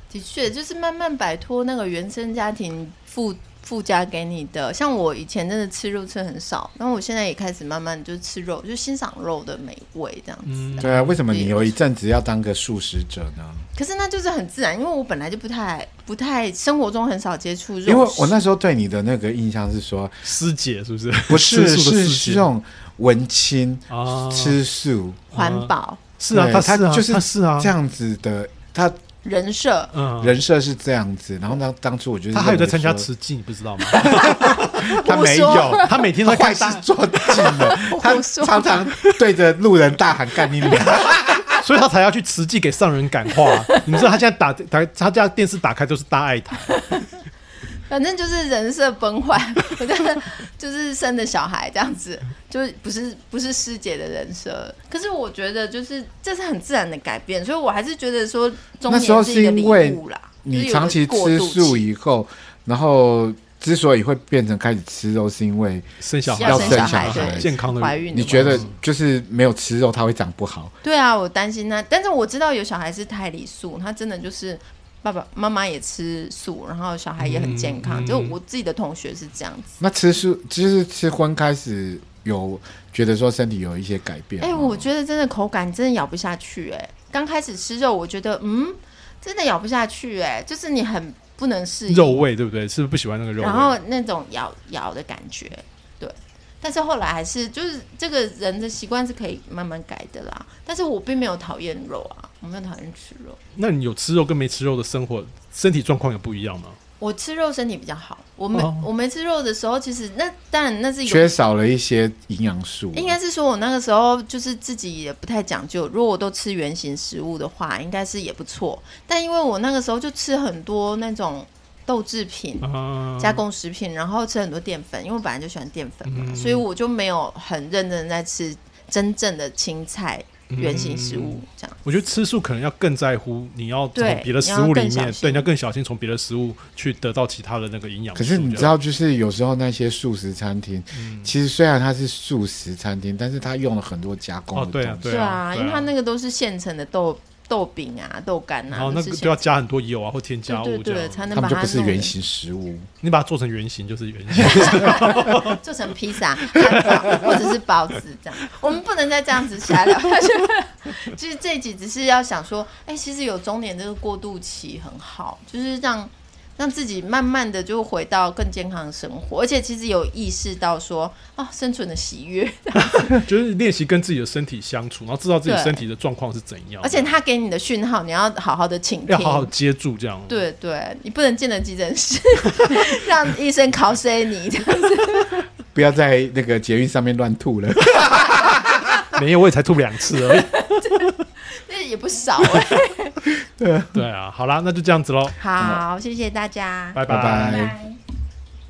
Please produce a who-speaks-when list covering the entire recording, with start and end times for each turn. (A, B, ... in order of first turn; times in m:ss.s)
0:00.1-0:11.7 A
0:10.4-0:11.2 B
0:10.8-0:13.7 C
0:13.7-0:18.4 A
0:17.8-0:20.2 C
0:20.2-0:22.5 B
0:21.3-0:25.3 C
0:23.9-0:24.6 B
0:25.3-0:26.0 A
0:25.3-0:27.7 B
0:26.3-0:29.0 C
0:29.2-0:29.9 A
0:29.9-0:30.4 B
0:30.2-0:33.1 C
0:32.3-0:35.0 B
0:33.9-0:41.6 C
0:35.0-0:36.0 A
0:35.8-0:37.5 B
0:37.4-0:39.2 A
0:41.6-0:46.8 B
0:43.4-0:44.0 A
0:47.9-1:01.8 A
0:58.9-1:07.5 C
1:06.0-1:08.7 B
1:06.4-1:08.7 A
1:08.1-1:10.7 C
1:10.8-1:19.8 A
1:17.2-1:18.4 B
1:19.8-1:24.9 C
1:24.4-1:32.2 A
1:31.9-1:33.8 B
1:33.4-1:43.4 A
1:43.6-1:46.8 B
1:47.0-1:51.3 A
1:48.5-1:48.9 B
1:51.0-1:53.2 C
1:52.9-2:11.8 A
2:02.6-2:03.4 B
2:06.0-2:06.6 B
2:10.5-2:18.8 B
2:13.9-2:15.5 A
2:18.1-2:25.2 C
2:20.9-2:21.3 B
2:24.5-2:25.9 B
2:25.0-2:29.4 A
2:28.7-2:31.4 B
2:30.5-2:32.1 A
2:31.3-2:32.9 C
2:33.0-2:35.6 B
2:34.4-2:53.2 A
2:36.6-2:37.4 B
2:52.8-2:57.2 B
2:55.4-2:55.9 A
2:56.8-2:59.5 A
2:59.1-3:00.4 B
3:00.3-3:05.4 A
3:05.7-3:08.9 C
3:09.1-3:11.2 B
3:10.2-3:13.2 A
3:13.5-3:14.0 C
3:13.9-3:15.4 B
3:15.4-3:18.0 A
3:16.9-3:17.7 B
3:17.0-3:17.8 C